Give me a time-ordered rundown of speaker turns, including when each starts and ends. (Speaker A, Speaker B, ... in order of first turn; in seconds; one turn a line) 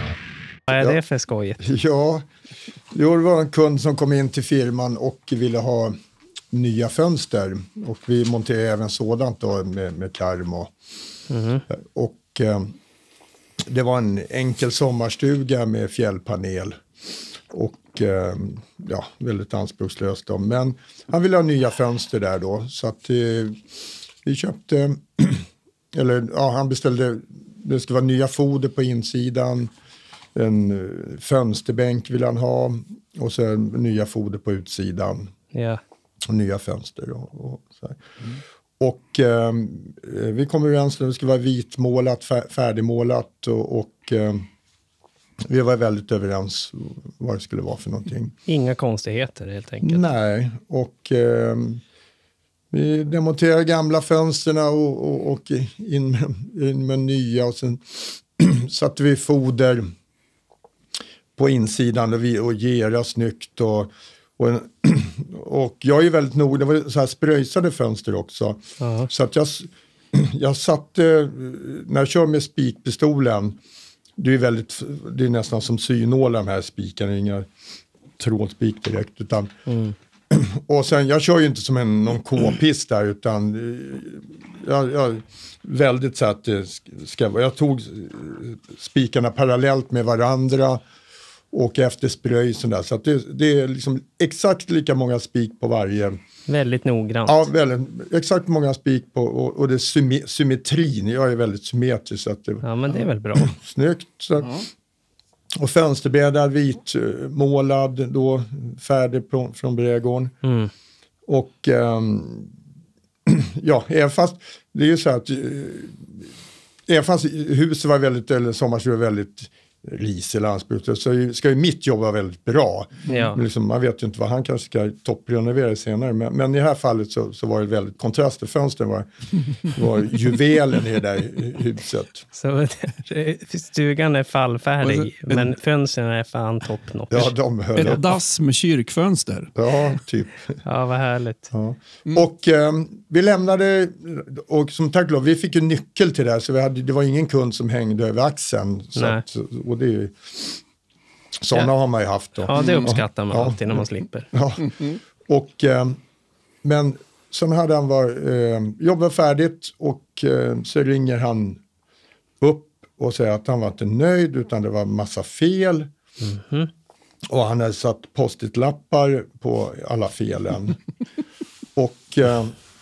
Speaker A: 0.7-1.6
Speaker B: 1.6-2.2
Speaker B: 2.9-5.9
Speaker B: 6.5-10.7
Speaker A: 11.3-11.6
Speaker B: 11.7-12.7
Speaker B: 13.7-16.8
Speaker B: 17.5-23.6
Speaker B: 24.2-29.7
Speaker B: 30.3-35.3
Speaker A: 35.5-35.8
Speaker B: 36.3-38.0
Speaker B: 38.8-44.4
Speaker B: 45.5-48.3
Speaker A: 48.5-50.0
Speaker B: 49.8-51.8
Speaker B: 52.7-59.8
Speaker B: 61.4-73.6
Speaker A: 68.8-69.1
Speaker B: 74.2-77.5
Speaker B: 78.2-79.5
Speaker A: 79.7-79.9
Speaker B: 80.3-90.8
Speaker B: 91.5-96.2
Speaker A: 96.5-97.5
Speaker B: 97.2-104.7
Speaker A: 102.6-103.5
Speaker B: 105.6-110.3
Speaker A: 110.4-110.7
Speaker B: 111.3-112.5
Speaker B: 113.3-116.2
Speaker B: 116.9-132.2
Speaker A: 123.1-123.4
Speaker A: 132.3-137.3
Speaker C: 134.8-135.3
Speaker B: 137.1-138.1
Speaker C: 137.8-139.5
Speaker B: 139.5-140.6
Speaker A: 140.6-141.5
Speaker B: 141.5-150.6
Speaker A: 148.9-149.2
Speaker B: 151.4-156.0
Speaker A: 152.3-154.3
Speaker C: 152.6-152.9
Speaker B: 156.6-161.6
Speaker B: 162.4-165.9
Speaker A: 166.2-166.7
Speaker B: 167.3-170.8
Speaker B: 171.7-172.5